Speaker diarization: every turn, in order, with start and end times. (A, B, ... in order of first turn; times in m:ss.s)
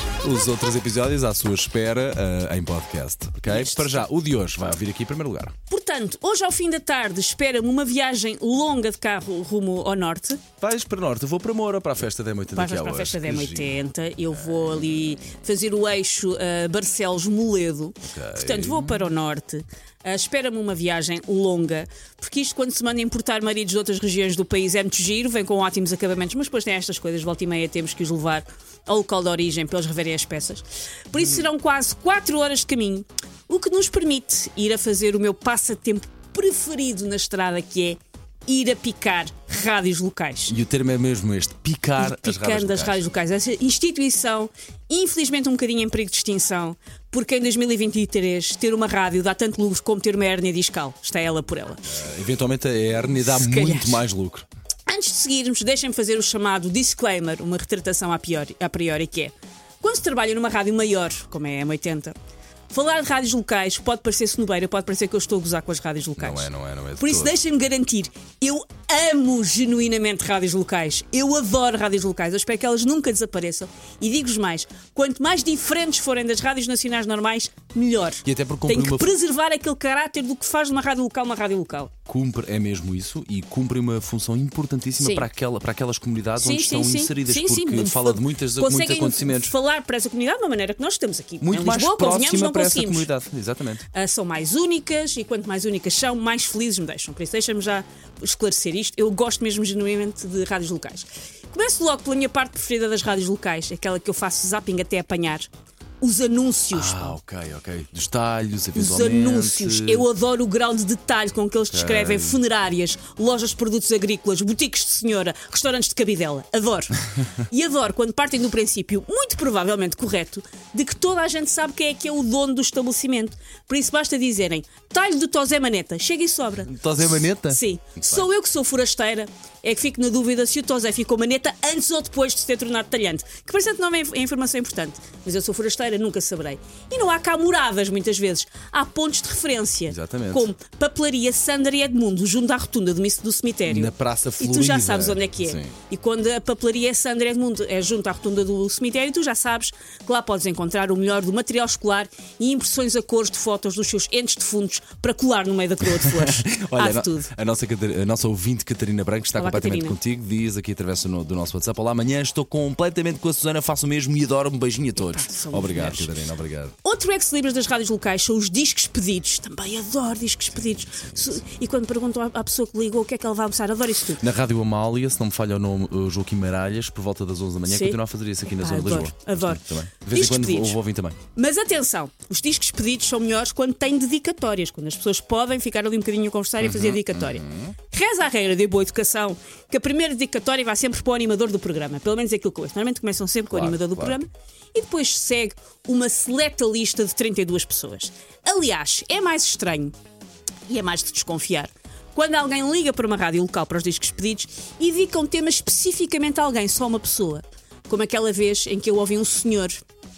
0:00.2-0:05.5 A
0:03.5-0:04.0 B
0:05.7-0:10.4 B
0:10.6-0:13.8 A
0:12.5-0:40.5 B
0:14.5-0:15.1 A
0:18.0-0:19.1 A
0:40.5-0:43.0 A
0:42.0-0:52.0 B
0:51.8-0:54.4 A
0:53.2-0:54.0 B
0:54.9-1:02.1 B
1:02.7-1:21.9 B
1:06.2-1:07.4 A
1:18.2-1:19.2 A
1:22.1-1:29.5 A
1:25.0-1:25.3 B
1:26.4-1:33.1 B
1:31.4-1:33.9 A
1:33.9-1:45.5 B
1:46.0-1:47.2 B
1:46.7-1:50.0 A
1:48.7-2:37.3 B
1:51.7-1:52.4 A
2:06.6-2:08.2 A
2:19.9-2:20.5 A
2:23.7-2:25.7 A
2:35.8-2:46.7 A
2:39.4-2:40.0 B
2:45.0-2:46.1 B
2:46.8-2:54.2 B
2:50.6-2:51.3 A
2:54.2-3:01.2 A
2:57.7-3:00.8 B
3:01.3-3:19.9 B
3:06.6-3:07.7 A
3:13.5-3:14.2 A
3:20.7-3:29.8 B